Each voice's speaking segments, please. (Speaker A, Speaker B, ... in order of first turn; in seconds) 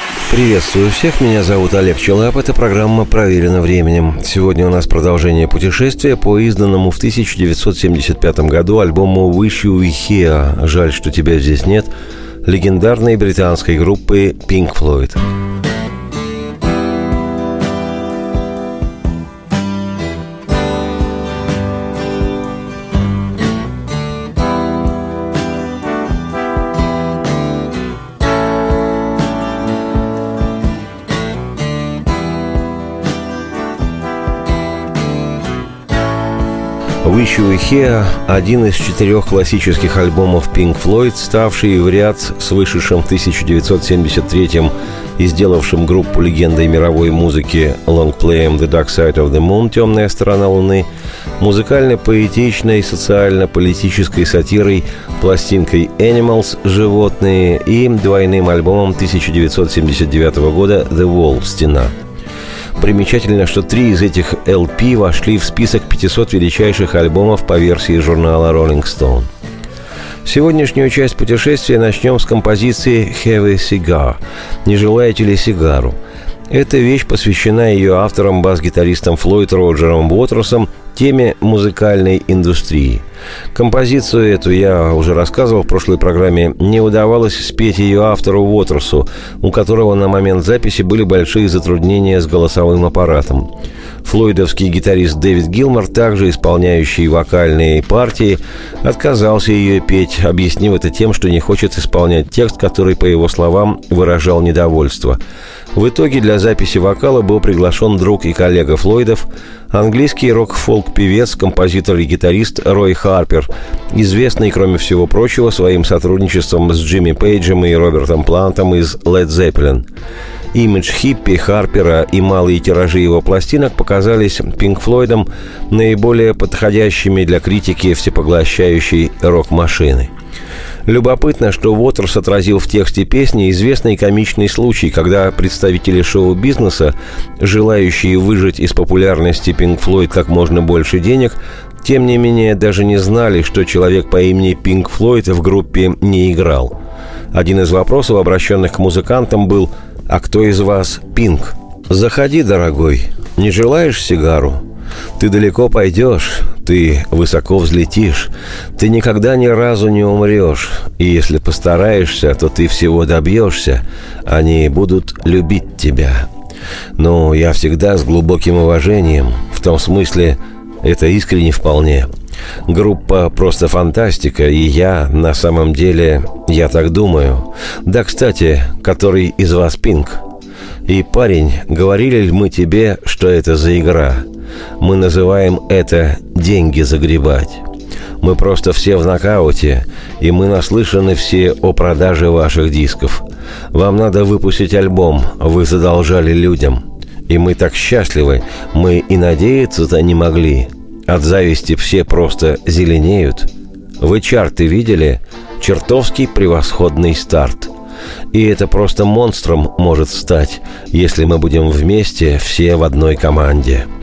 Speaker A: 0.3-11.9, 12.4-15.2, 37.0-50.9, 51.4-61.9, 62.8-69.3, 70.2-76.0, 76.5-93.5, 94.0-105.2, 105.7-119.8, 120.5-130.1, 130.8-146.7, 147.3-154.6, 155.2-166.3, 167.0-172.1, 172.7-180.2, 180.8-184.2, 184.8-187.6, 188.2-207.7, 208.3-213.9